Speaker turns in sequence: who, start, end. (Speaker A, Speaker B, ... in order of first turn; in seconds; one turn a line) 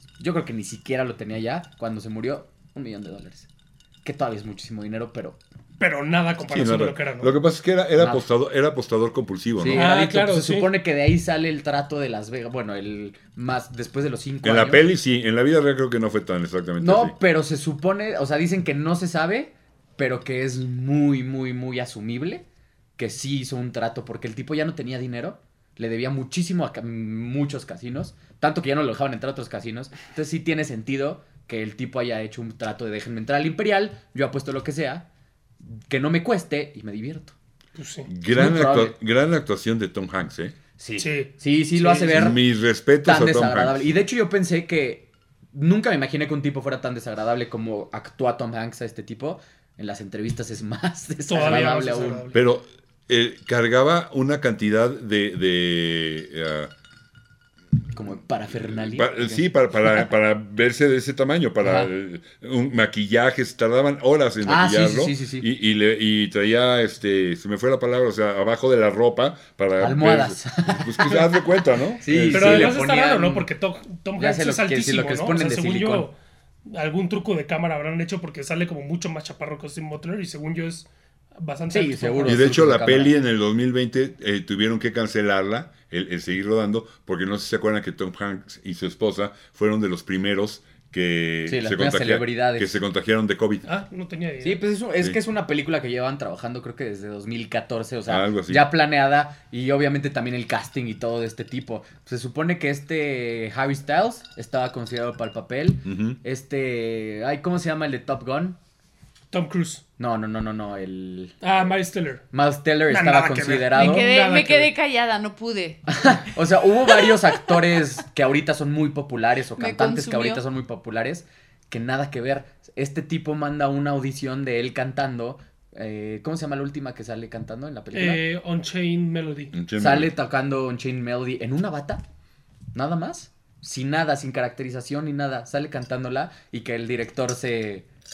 Speaker A: 0.2-3.5
Speaker A: 4.0-5.4
Speaker B: 5.8-7.3
Speaker C: 6.5-9.9
Speaker A: 8.0-8.2
Speaker A: 9.6-14.9
Speaker B: 9.7-10.7
Speaker C: 14.4-17.1
Speaker A: 16.8-22.4
Speaker A: 23.0-35.0
Speaker A: 35.6-37.4
Speaker B: 37.8-38.1
Speaker C: 38.1-40.5
Speaker A: 38.3-39.0
Speaker A: 40.8-42.4
Speaker B: 41.0-42.3
Speaker C: 42.1-43.9
Speaker A: 43.0-52.3
Speaker B: 51.3-52.4
Speaker C: 52.3-56.7
Speaker A: 57.9-60.1
Speaker C: 58.5-72.8
Speaker A: 61.6-61.9
Speaker A: 64.4-65.5
Speaker A: 69.8-71.3
Speaker A: 72.0-73.5
Speaker B: 72.3-76.2
Speaker A: 74.2-76.1
Speaker B: 76.7-82.4
Speaker A: 81.7-83.1
Speaker C: 82.3-93.7
Speaker A: 91.5-92.8
Speaker B: 93.7-94.6
Speaker A: 94.4-108.6
Speaker C: 98.1-98.7
Speaker C: 105.8-106.2
Speaker B: 109.3-109.8
Speaker A: 110.0-111.3
Speaker B: 111.4-112.2
Speaker A: 112.3-114.1
Speaker B: 112.9-114.7
Speaker D: 113.7-116.2
Speaker A: 115.9-128.2
Speaker D: 116.9-117.2
Speaker D: 119.6-120.4
Speaker B: 127.9-129.6
Speaker C: 129.5-130.1
Speaker A: 129.8-132.0
Speaker A: 132.7-137.8